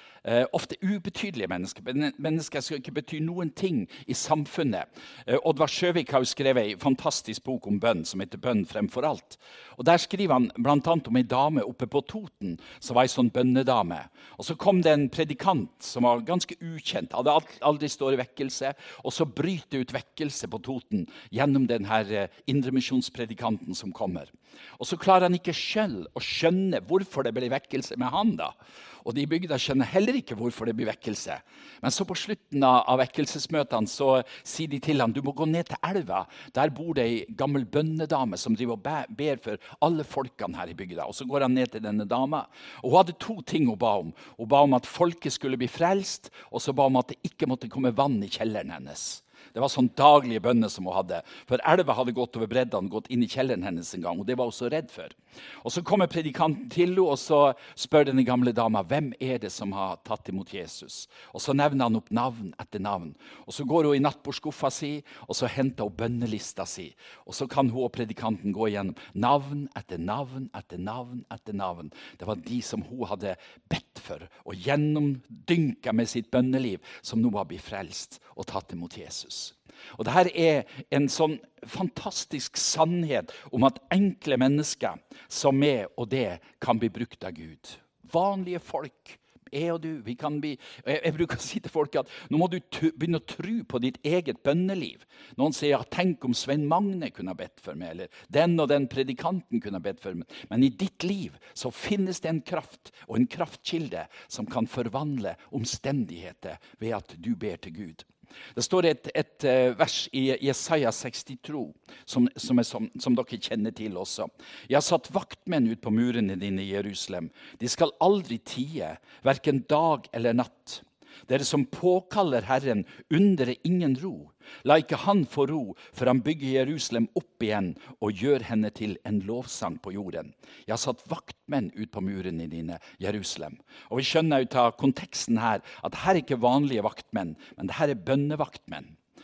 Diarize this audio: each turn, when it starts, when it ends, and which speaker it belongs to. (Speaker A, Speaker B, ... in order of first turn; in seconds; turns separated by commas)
Speaker A: 0.2-138.9